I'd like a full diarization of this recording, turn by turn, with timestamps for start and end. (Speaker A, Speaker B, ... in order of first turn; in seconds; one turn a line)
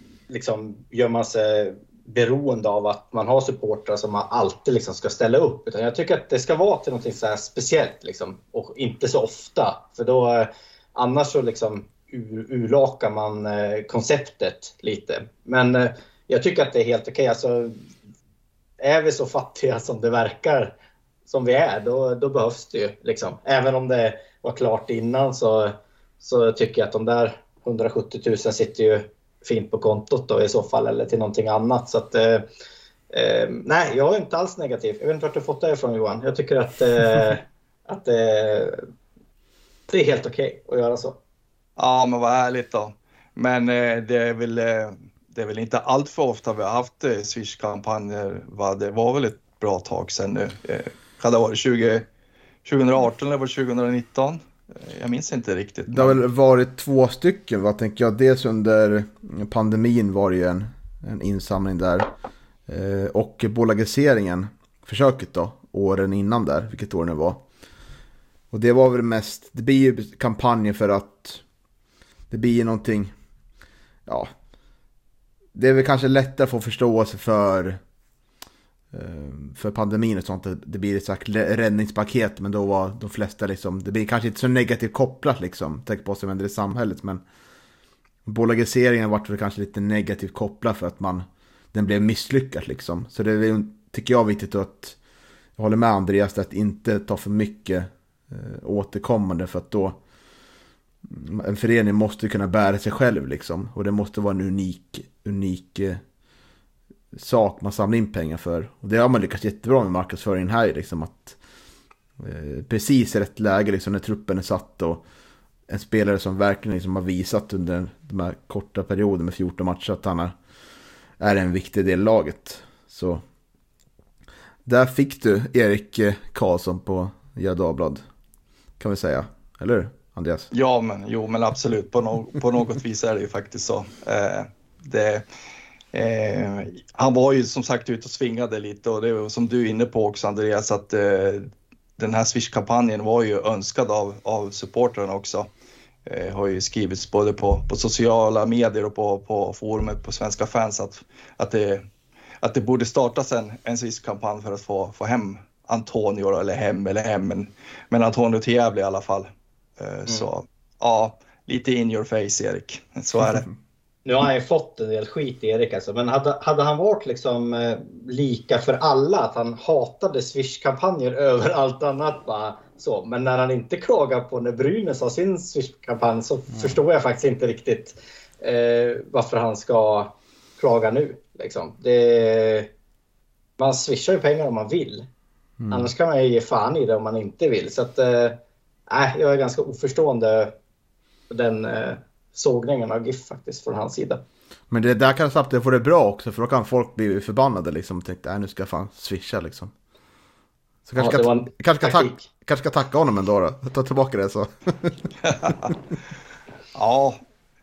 Speaker A: 0.3-17.8
Speaker A: 18.8-20.8
Speaker A: 21.3-32.5
Speaker A: 33.1-38.8
Speaker A: 39.9-41.2
Speaker B: 41.8-52.1
Speaker B: 52.6-56.2
Speaker C: 55.9-62.1
Speaker C: 62.7-67.4
Speaker C: 68.5-71.4
Speaker C: 72.3-73.1
Speaker C: 75.5-77.8
Speaker C: 78.9-87.2
Speaker C: 88.3-95.0
Speaker C: 95.6-100.0
Speaker C: 101.0-106.0
Speaker C: 107.1-111.4
Speaker C: 112.2-115.0
Speaker C: 115.7-120.3
Speaker C: 121.2-123.2
Speaker C: 124.7-128.0
Speaker C: 128.8-130.5
Speaker B: 130.5-135.2
Speaker B: 135.9-145.5
Speaker B: 146.1-151.8
Speaker B: 152.4-163.5
Speaker A: 164.1-182.7
Speaker A: 183.6-185.1
Speaker C: 185.6-185.9
Speaker A: 185.7-190.6
Speaker A: 191.3-194.2
Speaker C: 194.7-199.7
Speaker C: 200.9-205.1
Speaker A: 201.0-202.2
Speaker B: 205.2-205.7
Speaker B: 206.7-207.2